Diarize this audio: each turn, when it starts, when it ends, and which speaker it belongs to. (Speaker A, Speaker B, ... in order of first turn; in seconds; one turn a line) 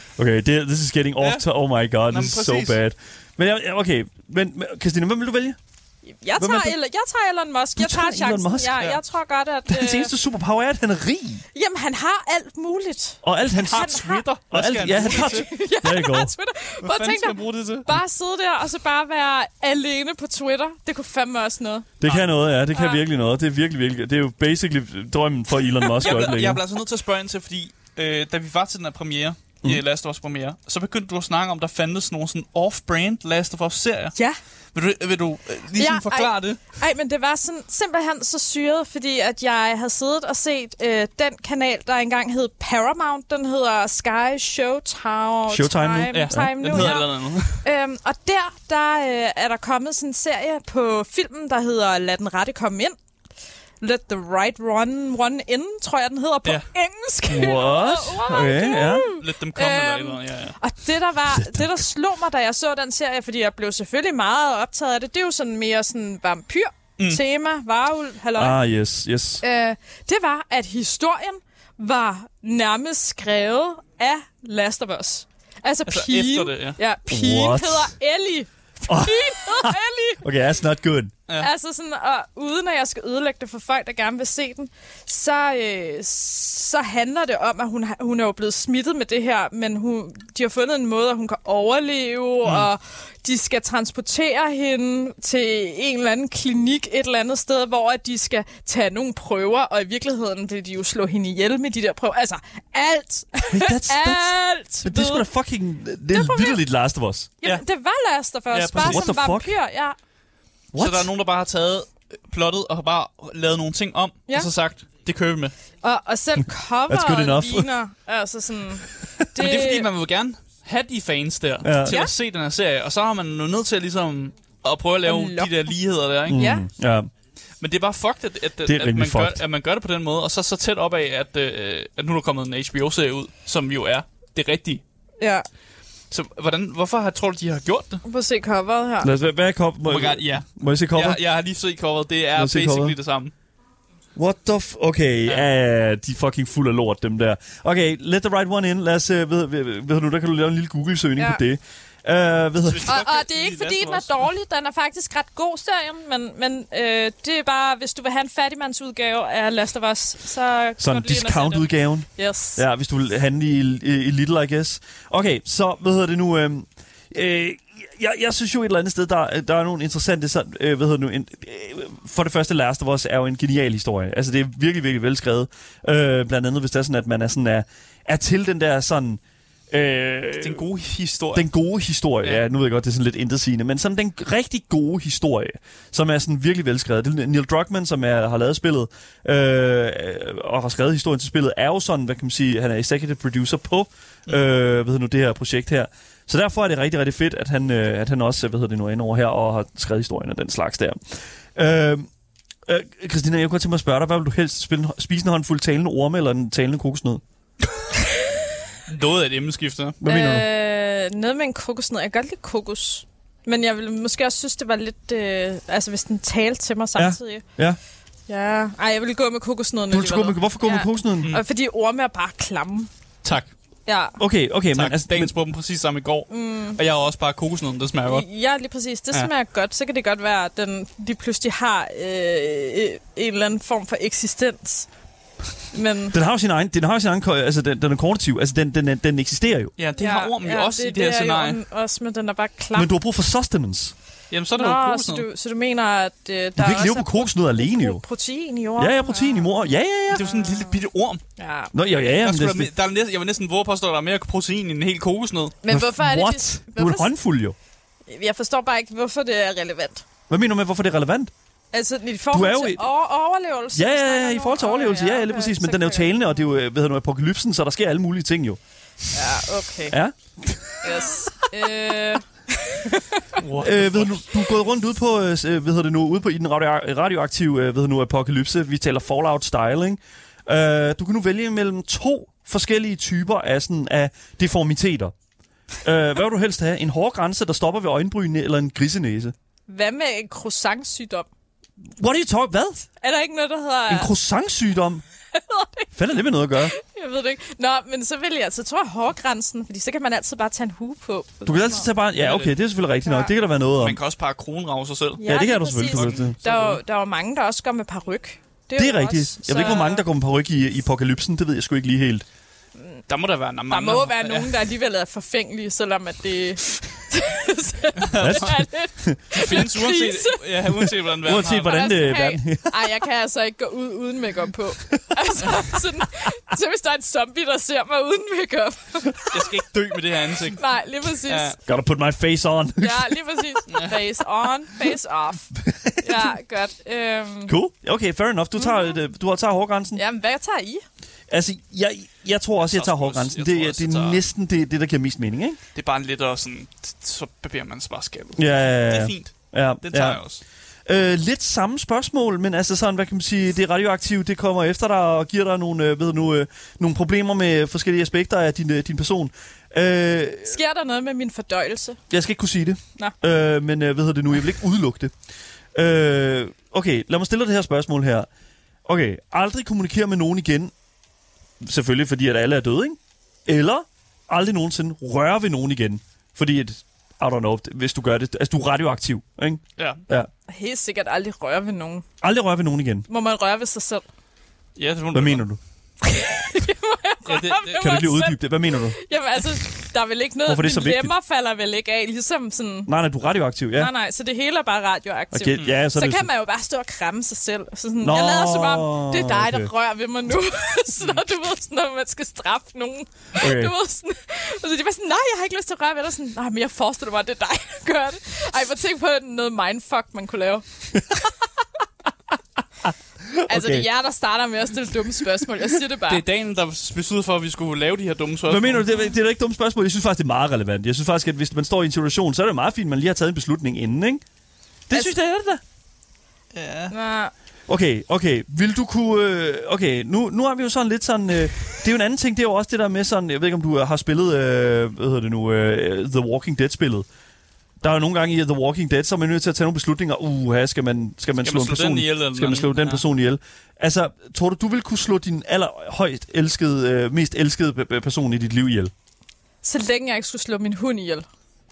Speaker A: 0.2-5.6
Speaker B: 2.1-2.8
Speaker C: 6.1-10.1
Speaker A: 6.4-6.8
Speaker A: 7.8-8.9
Speaker A: 9.7-11.4
Speaker C: 11.5-14.2
Speaker A: 13.2-16.3
Speaker B: 13.6-15.5
Speaker C: 14.9-21.9
Speaker B: 16.8-17.9
Speaker A: 22.0-26.6
Speaker B: 22.0-22.3
Speaker C: 22.7-23.0
Speaker B: 26.0-34.1
Speaker B: 34.7-36.6
Speaker C: 35.8-53.0
Speaker A: 45.5-47.0
Speaker B: 46.1-47.6
Speaker C: 53.8-68.6
Speaker A: 57.3-59.1
Speaker B: 59.1-60.6
Speaker A: 61.3-61.7
Speaker A: 68.4-69.4
Speaker C: 69.4-80.2
Speaker B: 75.9-76.8
Speaker A: 77.1-77.9
Speaker A: 78.9-81.1
Speaker C: 81.4-105.2
Speaker A: 103.5-107.3
Speaker C: 106.1-106.6
Speaker C: 107.4-110.0
Speaker B: 108.5-109.1
Speaker A: 108.8-109.6
Speaker A: 110.7-111.1
Speaker B: 110.8-115.5
Speaker C: 115.8-119.9
Speaker A: 116.9-117.7
Speaker B: 119.3-126.4
Speaker A: 121.6-122.0
Speaker C: 121.8-122.1
Speaker C: 125.0-125.7
Speaker A: 126.3-127.1
Speaker C: 126.3-126.7
Speaker B: 127.6-134.8
Speaker A: 128.7-129.4
Speaker C: 135.2-135.5
Speaker B: 136.1-138.0
Speaker C: 138.1-139.1
Speaker A: 139.0-141.2
Speaker B: 139.9-143.3
Speaker A: 142.3-143.0
Speaker A: 144.2-152.9
Speaker B: 152.7-154.2
Speaker C: 152.9-162.6
Speaker A: 160.8-180.7
Speaker B: 180.4-181.4
Speaker A: 181.3-202.1
Speaker A: 202.7-207.2
Speaker B: 208.9-210.0
Speaker A: 210.0-210.5
Speaker C: 210.1-217.4
Speaker A: 217.0-217.8
Speaker C: 218.3-222.9
Speaker A: 219.9-221.3
Speaker B: 223.2-223.5
Speaker C: 223.9-224.2
Speaker A: 224.2-225.3
Speaker B: 224.8-228.3
Speaker C: 226.3-226.8
Speaker C: 228.1-234.9
Speaker C: 235.7-236.2
Speaker A: 236.1-239.7
Speaker B: 239.8-241.6
Speaker C: 240.0-242.9
Speaker A: 242.7-243.9
Speaker B: 244.3-245.2
Speaker C: 244.6-249.6
Speaker A: 246.6-248.0
Speaker A: 248.8-250.3
Speaker B: 250.1-251.2
Speaker C: 250.2-250.8
Speaker C: 251.4-251.7
Speaker A: 251.7-252.7
Speaker B: 252.2-255.6
Speaker C: 255.6-257.1
Speaker A: 255.7-257.6
Speaker C: 258.1-260.0
Speaker A: 260.3-261.3
Speaker C: 261.7-266.3
Speaker A: 262.3-262.8
Speaker A: 263.8-268.6
Speaker C: 269.1-270.0
Speaker A: 269.9-271.1
Speaker C: 270.8-273.4
Speaker B: 273.4-274.2
Speaker A: 273.6-285.1
Speaker A: 285.8-289.3
Speaker C: 289.7-291.3
Speaker A: 292.0-292.9
Speaker C: 293.0-294.1
Speaker A: 293.9-295.0
Speaker C: 295.3-295.9
Speaker A: 295.9-296.7
Speaker C: 296.6-301.9
Speaker A: 301.4-304.0
Speaker B: 302.2-302.6
Speaker C: 303.1-303.3
Speaker B: 303.8-305.3
Speaker C: 305.2-310.0
Speaker A: 305.2-306.4
Speaker B: 305.9-306.8
Speaker A: 308.8-312.2
Speaker B: 313.1-314.6
Speaker C: 313.7-320.4
Speaker B: 318.0-318.6
Speaker A: 318.2-319.4
Speaker B: 319.3-321.9
Speaker A: 321.2-322.9
Speaker C: 321.4-329.5
Speaker B: 329.3-330.6
Speaker C: 330.5-331.6
Speaker B: 331.2-331.6
Speaker A: 331.7-333.6
Speaker C: 332.8-337.6
Speaker B: 333.7-334.0
Speaker A: 335.6-336.3
Speaker A: 337.5-340.0
Speaker C: 338.6-339.0
Speaker C: 339.9-340.8
Speaker A: 341.3-345.6
Speaker B: 342.6-344.2
Speaker B: 345.8-350.4
Speaker A: 348.4-350.2
Speaker A: 350.9-360.6
Speaker C: 360.4-362.0
Speaker A: 362.1-365.1
Speaker A: 365.8-368.3
Speaker A: 368.9-370.7
Speaker A: 371.6-380.3
Speaker C: 380.5-382.1
Speaker A: 382.2-383.1
Speaker C: 383.1-384.1
Speaker B: 384.8-385.4
Speaker A: 385.1-385.6
Speaker C: 386.0-392.9
Speaker B: 387.3-387.9
Speaker A: 387.8-389.0
Speaker A: 390.5-391.1
Speaker A: 392.9-393.9
Speaker C: 393.8-410.7
Speaker A: 395.3-396.3
Speaker A: 398.0-399.7
Speaker A: 403.4-403.7
Speaker A: 412.9-413.9
Speaker C: 413.5-416.2
Speaker B: 416.1-418.9
Speaker A: 418.5-424.2
Speaker A: 424.9-425.6
Speaker B: 426.5-426.9
Speaker C: 426.9-427.3
Speaker A: 427.7-437.1
Speaker A: 437.8-448.9
Speaker B: 441.4-443.0
Speaker C: 449.6-451.3